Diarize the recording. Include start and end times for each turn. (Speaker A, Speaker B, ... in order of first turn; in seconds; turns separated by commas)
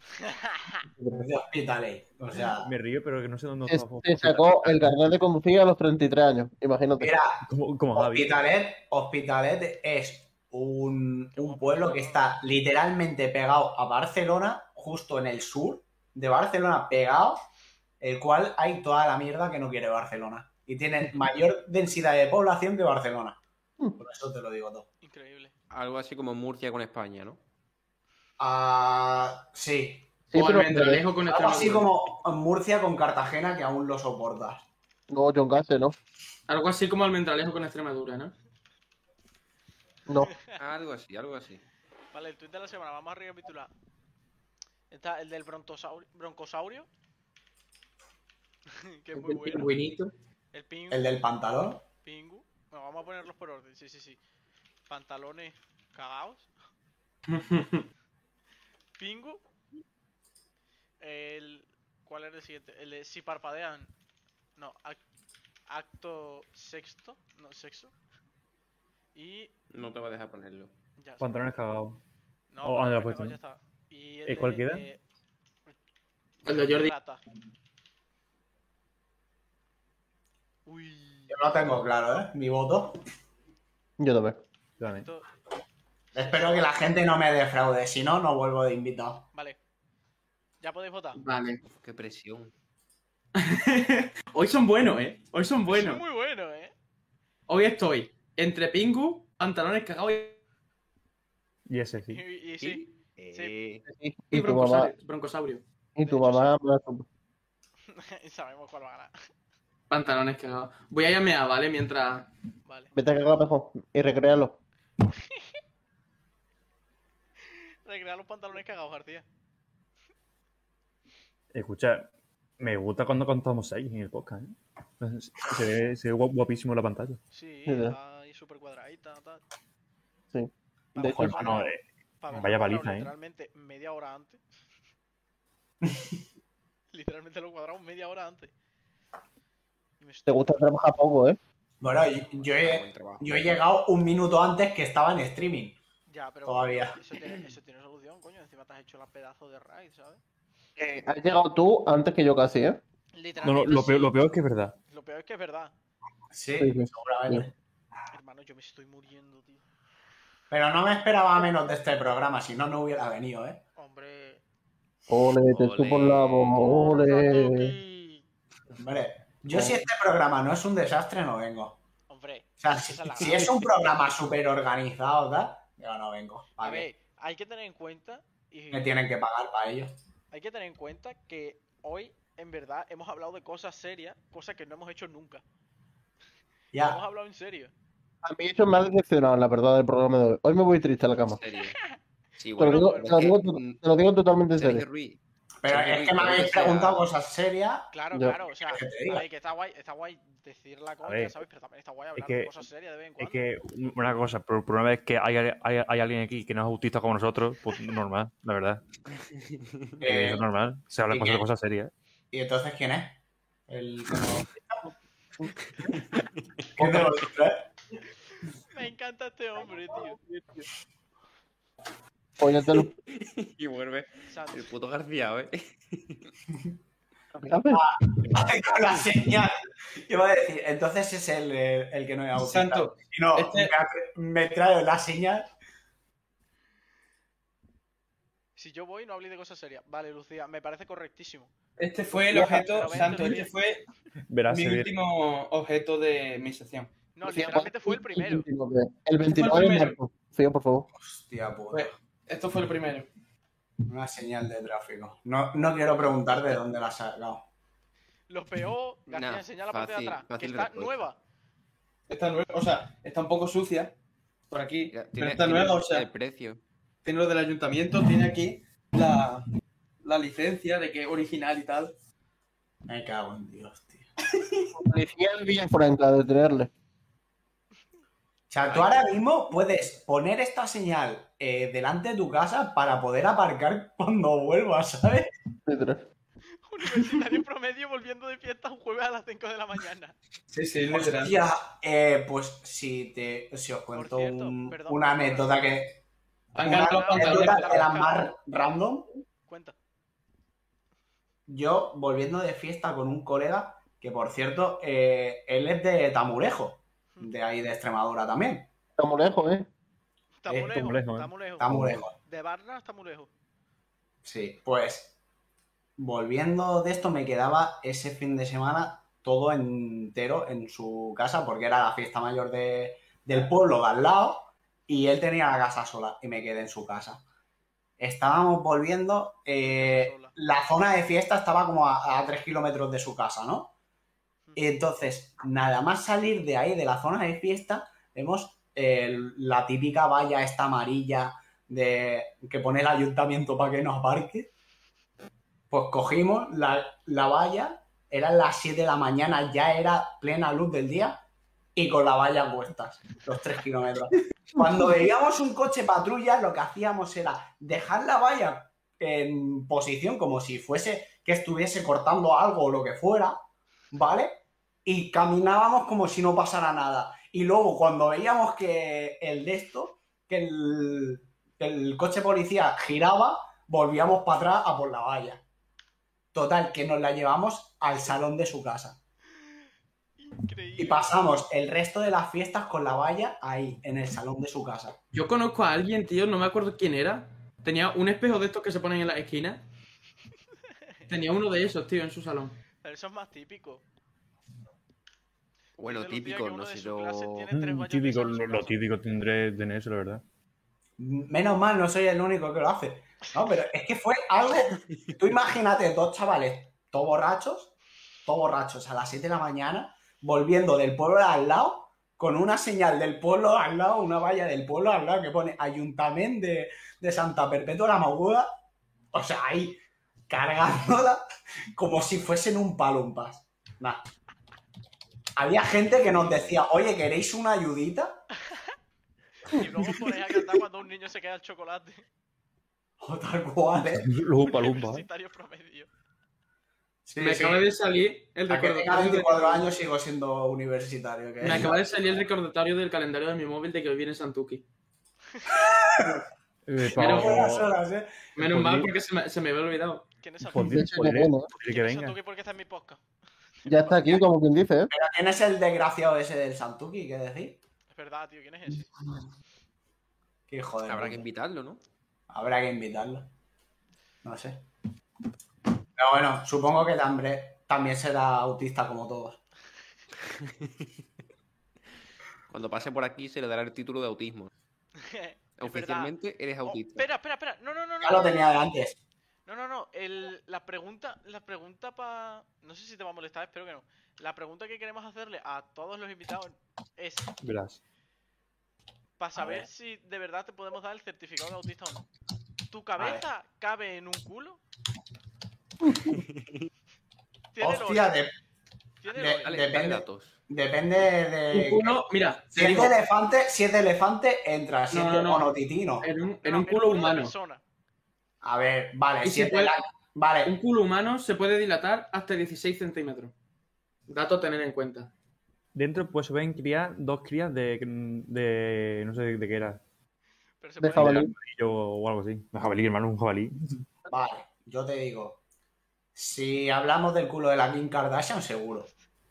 Speaker A: 0.2-0.8, Speaker B: 1.0-1.3, Speaker C: 1.2-2.7, Speaker D: 2.6-5.0, Speaker B: 3.7-7.2, Speaker C: 7.0-17.4, Speaker D: 7.4-8.3, Speaker A: 11.3-12.4, Speaker C: 18.0-23.4, Speaker C: 24.0-24.9, Speaker A: 25.0-25.5, Speaker E: 25.7-27.4, Speaker C: 28.4-30.1, Speaker B: 30.3-31.0, Speaker F: 30.3-31.9, Speaker C: 31.3-34.7, Speaker B: 35.1-36.0, Speaker F: 36.5-38.4, Speaker B: 40.1-40.3, Speaker A: 40.2-40.5, Speaker E: 40.6-41.6, Speaker A: 42.1-43.7, Speaker A: 44.9-46.9, Speaker A: 48.7-49.7, Speaker F: 49.2-50.1, Speaker A: 50.5-51.1, Speaker C: 50.9-51.8, Speaker A: 52.0-54.2, Speaker A: 54.9-56.5, Speaker F: 57.3-57.9, Speaker A: 59.0-59.4, Speaker A: 61.0-63.9, Speaker A: 64.6-65.0, Speaker A: 65.7-67.9, Speaker A: 69.2-69.5, Speaker E: 69.7-70.7, Speaker A: 71.0-71.6, Speaker D: 71.2-72.0, Speaker A: 72.5-75.0, Speaker D: 72.6-73.4, Speaker D: 74.3-74.8, Speaker F: 76.5-76.9, Speaker A: 76.5-77.2, Speaker A: 80.7-81.4, Speaker C: 81.3-83.0, Speaker B: 84.0-84.4, Speaker D: 84.8-85.1, Speaker A: 84.9-85.3, Speaker A: 86.1-86.8, Speaker C: 86.2-89.3, Speaker A: 90.6-91.2, Speaker F: 91.2-91.6, Speaker E: 91.7-92.5, Speaker F: 93.3-96.0, Speaker A: 95.7-96.7, Speaker F: 97.5-100.4, Speaker D: 101.7-102.2, Speaker A: 102.1-103.5, Speaker E: 102.6-103.8, Speaker B: 103.9-104.9, Speaker F: 104.3-105.6, Speaker B: 106.0-107.1, Speaker A: 106.0-106.6, Speaker A: 107.9-109.1, Speaker F: 109.9-112.3, Speaker A: 112.7-112.9, Speaker B: 113.0-114.6, Speaker A: 115.1-115.5, Speaker A: 117.5-119.2, Speaker D: 121.5-127.2, Speaker A: 127.3-129.4, Speaker B: 127.7-128.0, Speaker B: 130.3-131.6, Speaker A: 130.9-134.4, Speaker D: 131.1-133.1, Speaker A: 136.9-138.5, Speaker A: 140.0-140.5, Speaker B: 140.3-141.4, Speaker C: 141.8-145.8, Speaker E: 142.3-143.5, Speaker A: 146.1-150.2, Speaker C: 146.5-147.0, Speaker B: 150.8-152.8, Speaker A: 153.1-154.2, Speaker D: 153.4-154.8, Speaker A: 154.9-155.7, Speaker C: 156.3-157.5, Speaker B: 156.6-157.5, Speaker A: 158.1-159.6, Speaker C: 160.5-163.6, Speaker A: 163.8-164.4, Speaker B: 165.1-167.7, Speaker E: 165.5-166.6, Speaker A: 166.6-168.2, Speaker C: 168.8-171.8, Speaker B: 169.5-169.8, Speaker A: 172.1-173.6, Speaker C: 172.6-176.9, Speaker A: 176.6-179.0, Speaker C: 178.7-179.9, Speaker A: 180.3-185.4, Speaker C: 186.7-187.0, Speaker A: 186.8-187.7, Speaker B: 188.2-191.4, Speaker E: 191.4-191.8, Speaker A: 191.7-192.0, Speaker E: 192.4-193.8, Speaker A: 192.6-193.4, Speaker B: 192.6-194.8, Speaker E: 194.6-197.1, Speaker C: 195.6-197.9, Speaker A: 197.9-203.4, Speaker C: 198.6-199.2, Speaker D: 201.1-201.3, Speaker D: 202.2-202.6, Speaker D: 203.2-208.8, Speaker C: 210.0-210.5, Speaker D: 210.0-211.9, Speaker C: 211.1-211.4, Speaker C: 212.3-214.5, Speaker B: 214.9-215.5, Speaker E: 215.8-216.2, Speaker C: 216.8-217.6, Speaker A: 218.7-220.2, Speaker B: 222.4-222.9, Speaker E: 223.1-226.3, Speaker A: 224.3-224.7, Speaker B: 227.3-228.4, Speaker C: 227.7-235.5, Speaker F: 232.3-233.7, Speaker A: 238.6-241.5, Speaker F: 241.8-243.9, Speaker A: 242.2-243.5, Speaker D: 244.3-244.9, Speaker F: 244.5-246.9, Speaker A: 247.2-248.5, Speaker B: 247.2-250.9, Speaker F: 249.3-250.0, Speaker C: 251.0-251.9, Speaker F: 251.7-253.1, Speaker C: 253.9-257.5, Speaker A: 258.3-261.2, Speaker E: 259.1-261.0, Speaker F: 262.1-263.9, Speaker F: 264.5-266.1, Speaker E: 264.9-266.6, Speaker F: 267.0-269.5, Speaker F: 270.0-271.9, Speaker C: 272.9-274.1, Speaker B: 274.7-276.7, Speaker C: 278.5-285.3, Speaker E: 278.7-279.0, Speaker B: 285.7-286.1, Speaker A: 286.6-290.1, Speaker F: 290.5-291.3, Speaker C: 290.9-296.0, Speaker A: 293.9-295.6, Speaker F: 296.6-297.9, Speaker A: 296.6-298.2, Speaker C: 296.6-299.1, Speaker A: 299.5-299.8, Speaker C: 301.5-308.7, Speaker B: 309.0-309.7, Speaker A: 310.4-313.3, Speaker D: 310.5-312.0, Speaker C: 311.6-312.1, Speaker C: 314.2-315.1, Speaker C: 316.0-327.2, Speaker C: 328.0-333.7, Speaker A: 329.6-330.3, Speaker C: 334.6-344.5, Speaker C: 345.7-351.2, Speaker C: 351.8-363.4, Speaker C: 363.9-375.4, Speaker C: 376.3-379.0, Speaker A: 380.2-381.2, Speaker C: 380.8-385.0, Speaker F: 385.1-389.6, Speaker F: 391.1-392.6, Speaker A: 392.8-393.8, Speaker E: 395.8-397.5, Speaker A: 395.8-398.8, Speaker D: 397.5-400.2, Speaker C: 401.0-407.7, Speaker C: 408.3-418.5, Speaker C: 419.1-424.0, Speaker C: 425.4-428.2, Speaker E: 425.8-426.6, Speaker A: 429.4-432.0, Speaker C: 433.0-434.1, Speaker D: 434.0-435.1, Speaker A: 434.4-435.9, Speaker C: 437.1-437.6, Speaker F: 437.2-439.7, Speaker C: 438.5-441.8, Speaker F: 441.4-444.6, Speaker C: 445.5-446.2, Speaker D: 446.7-447.7, Speaker C: 446.9-448.1, Speaker F: 446.9-447.5, Speaker F: 448.4-450.0, Speaker D: 448.4-448.9, Speaker A: 450.2-450.7, Speaker D: 450.5-452.2, Speaker B: 450.6-451.5, Speaker A: 451.6-453.0, Speaker A: 453.6-454.2, Speaker B: 453.7-454.9, Speaker C: 454.9-457.6, Speaker A: 457.9-458.9, Speaker C: 460.5-461.3, Speaker E: 460.9-461.8, Speaker C: 462.3-463.3, Speaker C: 464.2-464.6, Speaker C: 466.0-469.4, Speaker E: 472.5-474.5, Speaker A: 475.0-476.1, Speaker E: 475.6-477.1, Speaker A: 476.6-478.6, Speaker C: 478.0-479.0, Speaker A: 479.5-487.3, Speaker D: 487.4-487.8, Speaker A: 489.2-492.1, Speaker C: 489.4-489.7, Speaker A: 492.7-494.6, Speaker E: 496.1-496.5, Speaker A: 497.5-498.1, Speaker C: 497.6-498.3, Speaker A: 499.0-499.6, Speaker C: 499.1-502.0, Speaker E: 499.4-500.4, Speaker F: 501.5-502.9, Speaker C: 502.5-506.1, Speaker F: 504.9-505.5, Speaker F: 506.0-507.3, Speaker A: 506.4-507.6, Speaker C: 508.4-510.6, Speaker F: 509.2-509.8, Speaker F: 510.4-513.3, Speaker F: 514.1-515.1, Speaker D: 515.8-519.8, Speaker A: 520.6-521.3, Speaker B: 520.8-521.3, Speaker D: 520.9-523.5, Speaker C: 524.1-525.4, Speaker C: 526.1-528.9